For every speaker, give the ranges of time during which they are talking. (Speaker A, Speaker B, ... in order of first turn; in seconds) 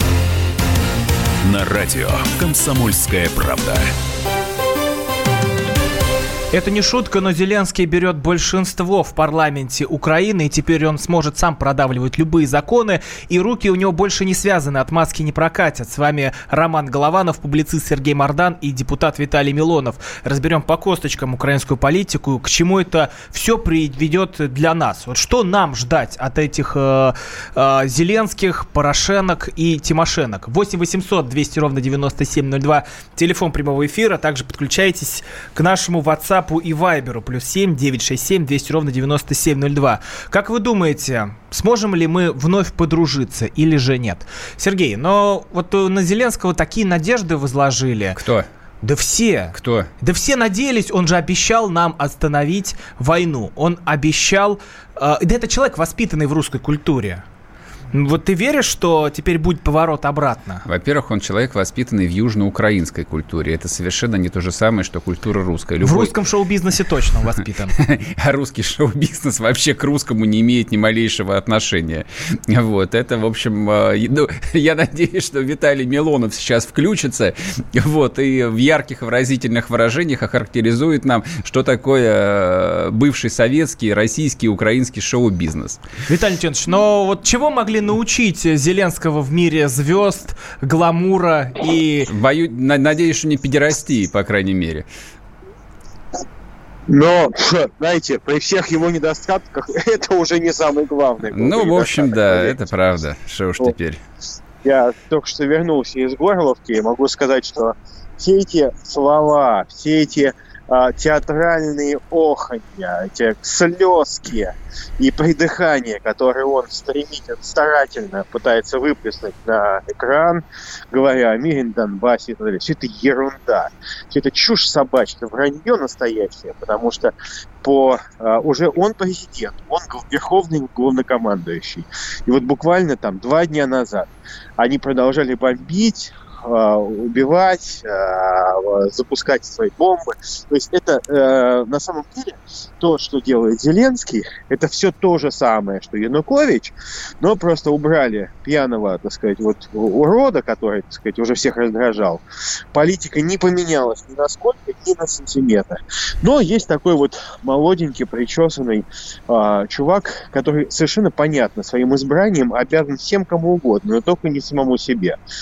Speaker A: 1.4-3.9
Speaker B: 6.5-48.2, 48.8-57.2, 57.9-60.6, 65.8-67.8, 86.1-92.1
Speaker C: 48.2-48.5, 49.5-49.9, 60.6-66.2, 67.8-85.8, 92.1-94.8, 101.3-104.0
Speaker D: 96.9-102.7, 104.6-165.2